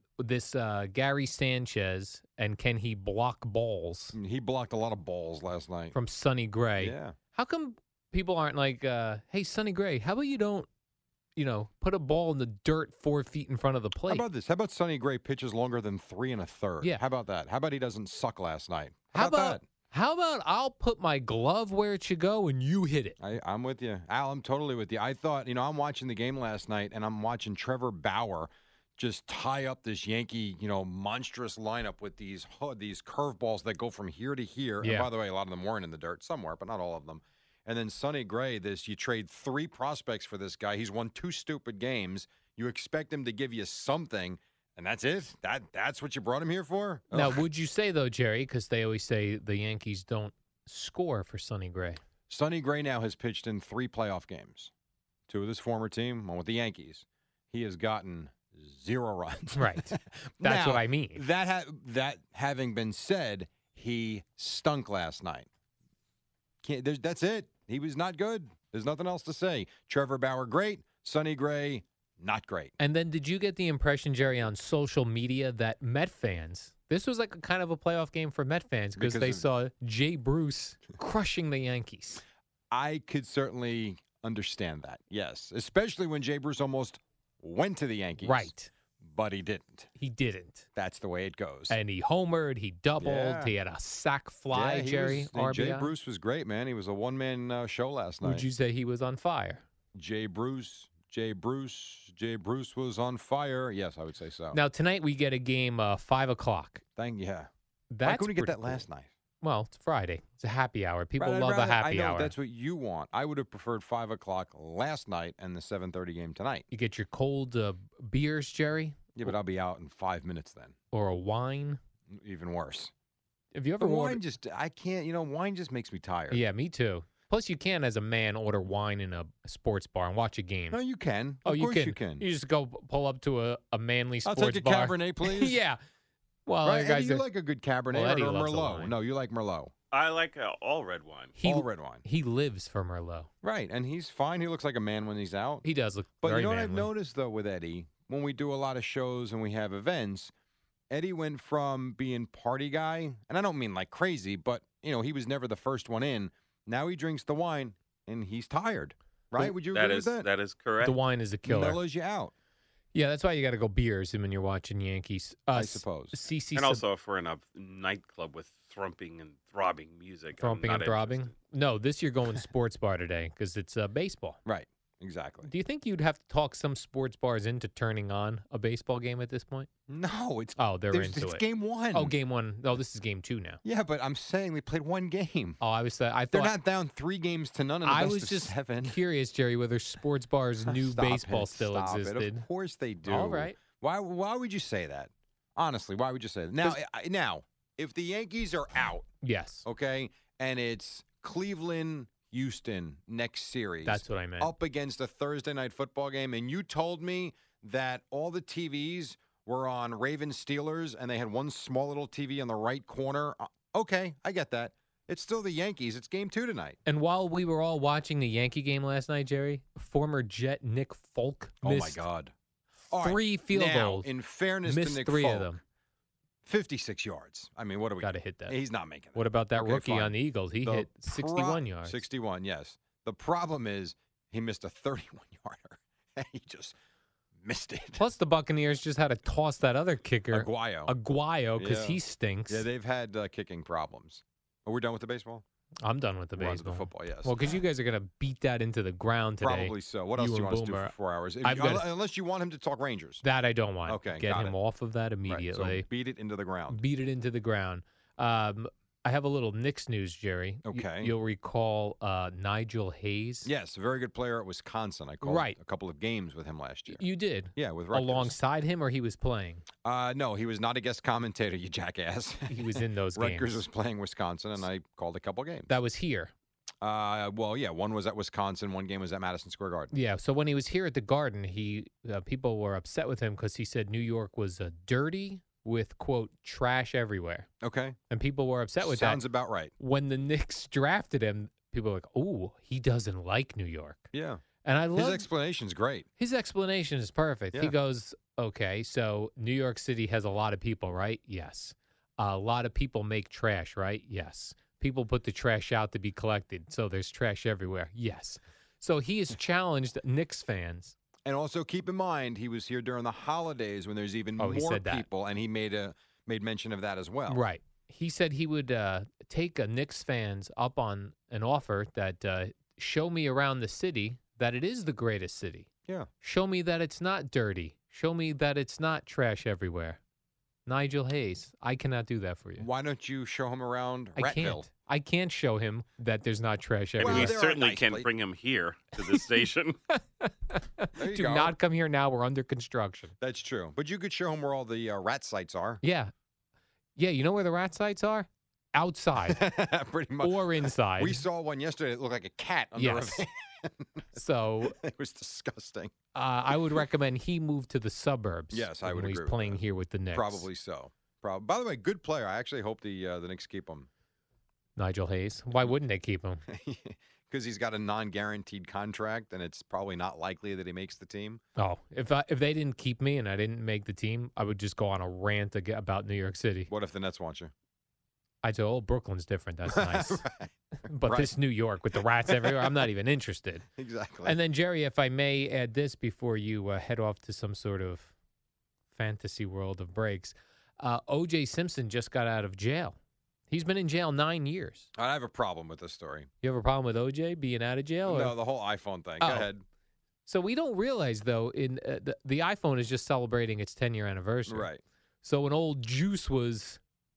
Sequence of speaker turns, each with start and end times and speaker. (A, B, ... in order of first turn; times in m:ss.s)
0:00.2-0:04.2 A
0:04.1-0:05.9 B
0:05.9-0:10.7 A
0:06.8-0:07.2 B
0:11.4-0:14.2 A
0:14.1-0:19.6 B
0:19.1-0:23.2 A
0:23.2-0:47.4 B
0:34.8-0:35.1 A
0:47.1-0:52.0 A
0:52.3-0:54.7 B
0:55.3-1:05.5 B
0:59.6-1:01.2 A
1:06.6-1:12.7 B
1:12.8-1:22.2 A
1:19.0-1:19.4 B
1:22.7-1:28.5 B
1:28.2-1:28.7 A
1:29.0-1:29.9 B
1:30.0-1:30.7 A
1:30.8-1:31.8 B
1:31.7-1:35.9 A
1:33.0-1:33.5 B
1:34.5-1:38.5 B
1:38.2-1:39.6 A
1:40.0-1:44.6 B
1:44.5-1:46.8 A
1:47.0-1:47.5 B
1:47.9-1:48.9 A
1:48.1-1:49.1 B
1:49.4-1:52.3 A
1:51.2-1:56.7 B
1:56.7-1:59.3 A
1:59.2-2:00.7 B
2:00.9-2:01.8 A
2:02.1-2:02.9 B
2:03.5-2:04.2 A
2:03.8-2:06.4 B
2:06.3-2:10.8 A
2:10.7-2:12.2 B
2:11.4-2:15.8 A
2:14.3-2:15.6 B
2:16.5-2:17.2 A
2:16.6-2:19.7 B
2:17.9-2:18.9 A
2:19.9-2:21.4 C
2:21.4-2:23.3 A
2:21.4-2:22.0 B
2:23.4-2:25.6 B
2:25.6-2:26.9 A
2:26.2-2:30.3 B
2:30.9-2:40.3 B
2:39.4-2:41.0 C
2:40.8-2:41.8 A
2:41.5-2:42.3 B
2:42.9-2:46.8 A
2:45.5-2:46.2 B
2:46.5-2:51.4 C
2:50.4-2:54.4 A
2:54.5-2:55.5 B
2:55.5-2:59.7 A
2:59.9-3:02.1 B
3:00.6-3:03.6 A
3:03.6-3:05.6 B
3:05.6-3:06.5 A
3:06.3-3:09.0 B
3:07.8-3:12.5 A
3:10.6-3:19.1 B
3:13.0-3:13.6 A
3:19.2-3:19.6 A
3:19.6-3:36.8 B
3:23.8-3:24.5 A
3:36.8-3:42.0 A
3:41.6-3:42.3 B
3:42.9-3:45.5 B
3:43.0-3:44.1 A
3:44.6-3:45.6 A
3:46.4-3:56.8 B
3:48.0-3:48.6 A
3:49.2-3:52.0 A
3:57.4-3:58.0 B
3:58.0-4:02.7 A
4:00.3-4:00.9 B
4:01.6-4:05.4 B
4:05.8-4:11.9 A
4:06.4-4:07.6 B
4:09.4-4:13.2 B
4:13.2-4:15.8 A
4:13.9-4:14.5 B
4:15.3-4:16.8 B
4:16.7-4:23.5 A
4:20.6-4:21.1 B
4:23.4-4:27.0 B
4:25.2-4:25.6 A
4:26.9-4:29.6 A
4:27.6-4:28.4 B
4:29.8-4:35.7 B
4:32.5-4:33.6 A
4:35.7-4:36.3 A
4:36.8-4:39.9 B
4:39.9-4:47.5 A
4:47.6-4:48.0 B
4:48.1-4:54.1 A
4:48.8-4:49.7 B
4:54.1-4:54.4 B
4:54.6-4:55.3 A
4:55.0-4:56.1 B
4:56.2-5:11.0 A
5:11.2-5:17.4 B
5:14.4-5:15.1 A
5:17.3-5:25.7 A
5:26.2-5:30.0 A
5:30.6-5:32.7 A
5:32.6-5:34.6 B
5:34.2-5:37.4 A
5:37.0-5:39.8 C
5:37.0-5:38.1 B
5:40.2-5:43.1 A
5:41.0-5:41.5 B
5:43.2-5:45.8 B
5:45.8-5:46.1 A
5:47.0-5:49.5 A
5:49.2-5:50.4 B
5:50.2-5:51.2 A
5:51.0-5:54.1 B
5:52.8-5:53.2 A
5:54.1-5:54.8 A
5:54.7-5:55.9 B
5:56.1-6:00.5 A
5:58.5-5:59.6 B
6:00.1-6:03.9 B
6:04.8-6:06.4 A
6:06.5-6:11.4 B
6:11.6-6:16.7 A
6:16.7-6:17.5 B
6:18.4-6:20.2 A
6:19.8-6:20.5 B
6:20.8-6:23.6 A
6:21.0-6:21.3 B
6:23.8-6:24.4 B
6:24.2-6:28.1 A
6:28.9-6:33.0 A
6:33.5-6:34.9 A
6:35.0-6:36.3 B
6:36.4-6:38.4 A
6:38.1-6:39.6 B
6:39.2-6:39.5 A
6:40.2-6:44.7 A
6:44.5-6:44.8 B
6:45.2-6:46.8 A